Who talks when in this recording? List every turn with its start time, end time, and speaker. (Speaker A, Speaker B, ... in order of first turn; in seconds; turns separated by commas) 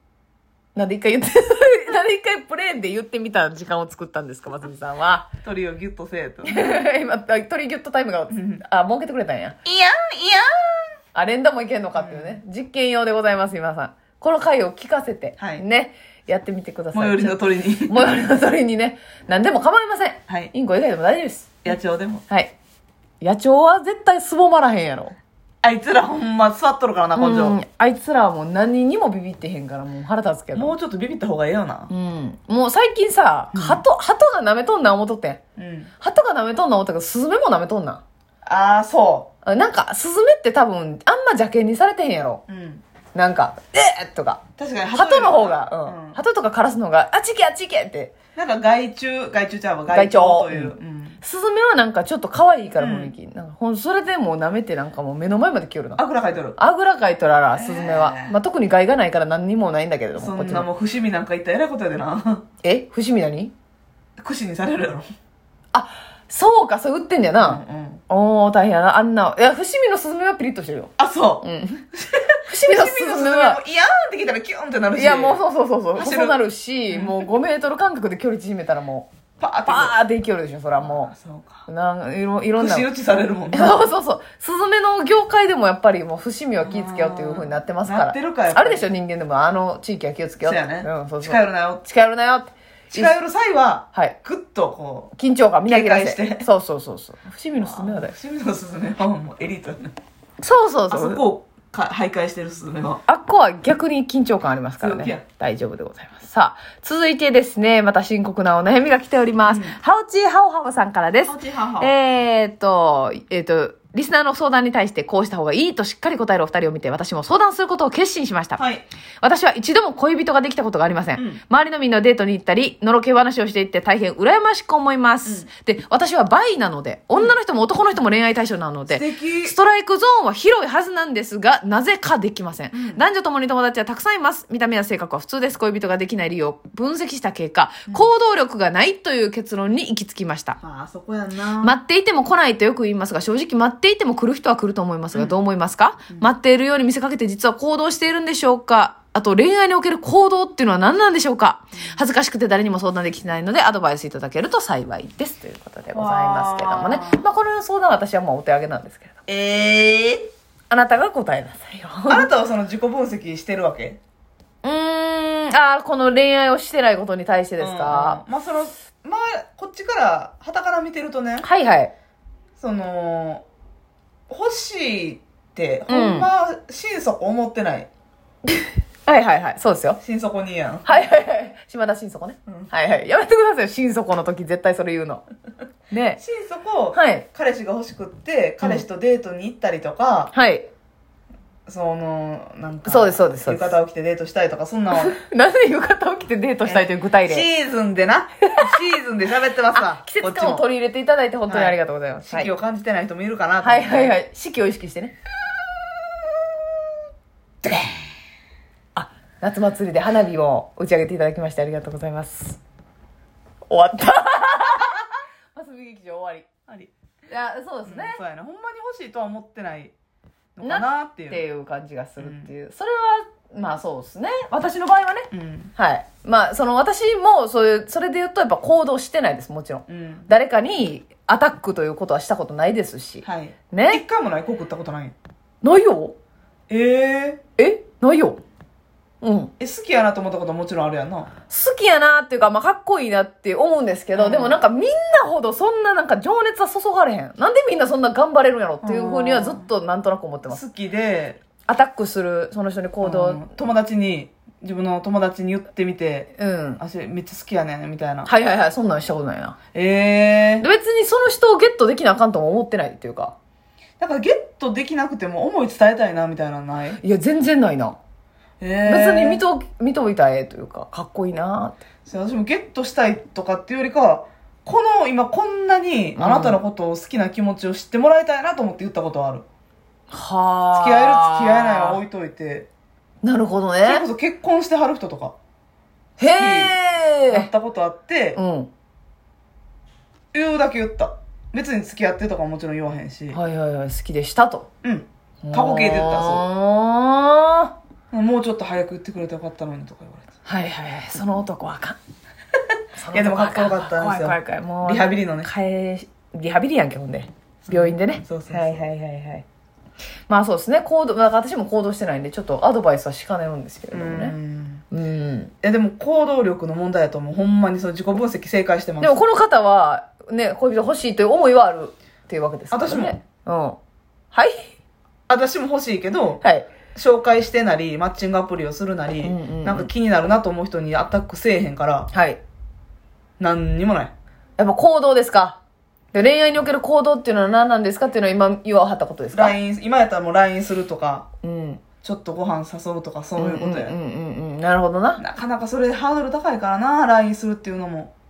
Speaker A: 0.7-5.3, Speaker B: 5.4-6.8, Speaker A: 6.5-9.6, Speaker B: 8.3-8.6, Speaker B: 9.6-10.9, Speaker A: 11.1-21.6, Speaker B: 11.9-12.4, Speaker B: 15.4-15.6, Speaker B: 16.9-18.3, Speaker B: 21.6-22.2, Speaker A: 22.3-22.5, Speaker A: 23.2-25.1, Speaker B: 25.6-27.6, Speaker A: 27.1-30.7, Speaker B: 30.5-31.9, Speaker A: 31.9-35.4, Speaker B: 33.5-33.8, Speaker B: 35.6-35.9, Speaker A: 36.0-38.0, Speaker B: 38.4-39.3, Speaker A: 39.4-42.4, Speaker B: 42.5-42.8, Speaker A: 43.1-44.4, Speaker B: 44.6-46.2, Speaker A: 44.9-48.1, Speaker B: 48.3-51.2, Speaker A: 49.9-56.0, Speaker B: 52.8-53.1, Speaker B: 56.0-56.6, Speaker A: 56.6-60.7, Speaker B: 57.5-58.3, Speaker B: 60.1-62.4, Speaker A: 62.6-63.5, Speaker B: 64.2-65.1, Speaker A: 65.7-71.9, Speaker B: 67.4-68.0, Speaker B: 71.0-75.4, Speaker A: 72.5-73.6, Speaker A: 75.0-79.1, Speaker B: 75.9-76.4, Speaker B: 76.9-77.3, Speaker B: 79.4-80.0, Speaker A: 79.7-81.1, Speaker B: 80.8-81.7, Speaker A: 81.7-82.9, Speaker B: 82.6-83.8, Speaker A: 83.5-93.1, Speaker B: 86.6-88.9, Speaker B: 90.4-91.8, Speaker B: 92.9-95.1, Speaker A: 95.2-98.1, Speaker B: 95.7-96.5, Speaker B: 97.6-99.9, Speaker A: 100.4-101.2, Speaker B: 100.9-103.0, Speaker A: 103.0-118.6, Speaker B: 104.8-105.2, Speaker B: 109.4-109.8, Speaker B: 111.2-111.9, Speaker B: 118.6-118.8, Speaker A: 119.2-140.6, Speaker B: 121.2-121.4, Speaker B: 128.9-129.6, Speaker B: 132.7-133.0, Speaker B: 140.6-141.8, Speaker A: 141.6-159.2, Speaker B: 151.7-152.0, Speaker B: 155.9-157.2, Speaker B: 159.3-160.3, Speaker A: 160.7-162.3, Speaker B: 162.1-164.0, Speaker A: 164.6-168.2, Speaker B: 167.6-171.4, Speaker A: 171.4-171.9, Speaker B: 172.6-173.4, Speaker B: 174.3-177.9, Speaker A: 175.9-176.3, Speaker A: 178.5-180.0, Speaker B: 180.0-181.0, Speaker A: 180.8-185.2, Speaker A: 185.9-186.2, Speaker B: 186.2-190.3, Speaker A: 186.9-187.2, Speaker A: 190.3-190.7, Speaker B: 191.7-195.2, Speaker A: 192.8-193.7, Speaker A: 194.9-197.5, Speaker B: 196.6-200.7, Speaker A: 199.7-202.5, Speaker B: 201.5-204.2, Speaker A: 203.6-205.1, Speaker A: 208.9-212.6, Speaker A: 213.7-215.0, Speaker A: 215.5-216.5, Speaker A: 217.3-218.2, Speaker B: 217.8-219.9, Speaker B: 220.6-221.4, Speaker A: 220.6-234.0, Speaker B: 222.2-222.5, Speaker B: 225.3-225.7, Speaker B: 229.9-230.3, Speaker B: 233.2-235.1, Speaker A: 235.6-236.1, Speaker B: 236.7-237.4, Speaker A: 237.6-238.4, Speaker A: 239.2-239.5, Speaker B: 239.6-241.3, Speaker A: 241.5-250.6, Speaker B: 244.1-244.6, Speaker B: 248.8-249.7, Speaker B: 250.5-251.4, Speaker A: 251.7-253.5, Speaker B: 253.0-258.3, Speaker A: 256.4-256.8, Speaker A: 258.2-259.6, Speaker B: 259.7-260.6, Speaker A: 260.6-263.3, Speaker B: 264.0-267.0, Speaker A: 267.0-268.0, Speaker B: 268.6-269.4, Speaker A: 268.8-271.8, Speaker B: 272.1-279.4, Speaker A: 276.2-276.6, Speaker A: 280.1-282.0, Speaker B: 280.7-282.7, Speaker A: 283.2-284.0, Speaker B: 283.8-285.3, Speaker A: 286.2-287.5, Speaker B: 286.2-286.8, Speaker B: 287.3-288.4, Speaker A: 288.4-288.7, Speaker B: 290.3-293.4, Speaker A: 293.3-294.7, Speaker B: 294.8-296.4, Speaker A: 295.4-297.7, Speaker B: 298.1-300.3, Speaker A: 300.4-302.0, Speaker A: 302.9-309.4, Speaker B: 303.1-305.5, Speaker B: 307.6-308.9, Speaker A: 310.3-314.3, Speaker B: 313.9-314.8, Speaker A: 314.9-315.5, Speaker B: 315.6-319.2, Speaker A: 319.0-323.8, Speaker B: 322.7-323.2, Speaker A: 324.3-324.7, Speaker B: 325.3-326.4, Speaker A: 326.4-326.7, Speaker B: 326.9-332.1, Speaker A: 329.2-329.9, Speaker A: 332.1-332.4, Speaker B: 333.4-334.1, Speaker A: 334.6-335.6, Speaker A: 336.1-339.6, Speaker B: 339.3-341.3, Speaker A: 341.4-341.8, Speaker B: 342.0-343.9, Speaker A: 343.4-345.2, Speaker B: 345.2-348.1